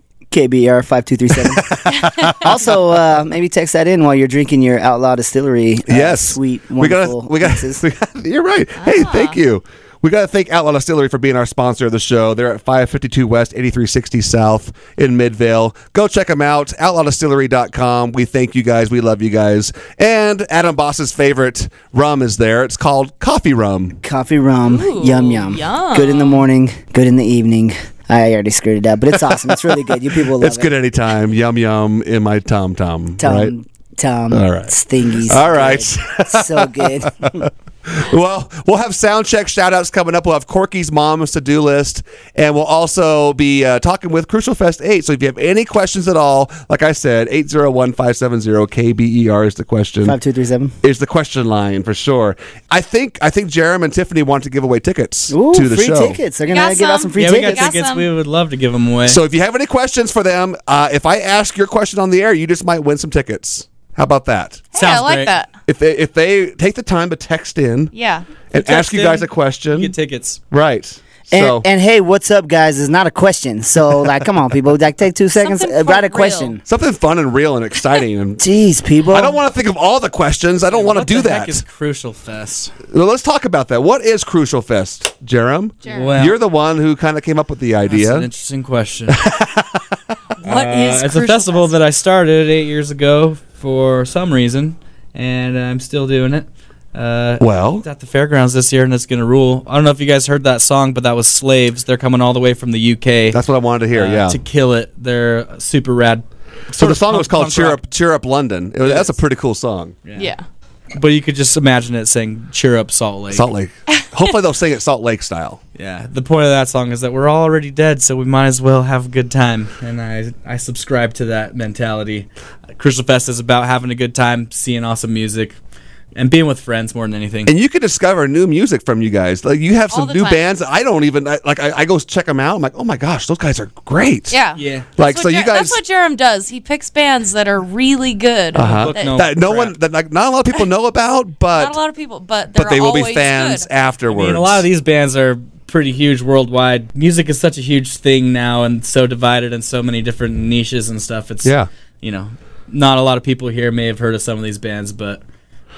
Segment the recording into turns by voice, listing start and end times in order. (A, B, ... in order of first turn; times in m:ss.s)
0:00.3-0:01.7 A
0:01.5-0:02.8 B
0:02.4-0:07.8 A
0:05.9-0:24.0 B
0:08.8-0:09.4 C
0:24.0-0:30.7 A
0:24.7-0:26.5 C
0:29.2-0:33.5 B
0:33.2-0:37.5 A
0:34.3-0:50.2 B
0:50.0-0:50.7 A
0:50.8-0:56.2 B
0:55.3-0:57.7 A
0:56.5-0:58.1 C
0:57.2-0:59.2 D
0:59.1-1:04.6 B
1:04.7-1:05.5 C
1:04.7-1:05.3 D
1:05.7-1:07.9 B
1:07.9-1:08.2 C
1:08.5-1:09.9 B
1:08.5-1:10.4 D
1:10.5-1:11.6 B
1:11.3-1:16.6 A
1:15.4-1:16.6 C
1:16.7-1:18.5 B
1:18.4-1:19.4 A
1:19.1-1:21.6 B
1:20.7-1:22.7 D
1:22.9-1:28.3 B
1:25.8-1:26.2 C
1:25.9-1:26.4 D
1:27.9-1:29.2 D
1:29.1-1:30.2 B
1:30.4-1:31.7 C
1:30.4-1:43.4 D
1:37.4-1:37.8 B
1:43.3-1:44.4 B
1:43.9-1:47.9 D
1:46.8-1:50.0 B
1:48.8-1:49.2 D
1:50.1-1:50.3 D
1:50.2-1:50.4 C
1:50.9-1:53.5 D
1:53.3-1:55.6 B
1:55.8-2:05.6 D
2:06.2-2:07.5 D
2:07.5-2:14.4 B
2:09.9-2:10.6 C
2:14.3-2:19.2 C
2:14.6-2:14.9 D
2:15.0-2:15.8 B
2:18.6-2:21.7 B
2:18.6-2:19.7 D
2:21.5-2:23.7 C
2:22.6-2:24.6 B
2:24.1-2:35.2 D
2:31.4-2:31.7 B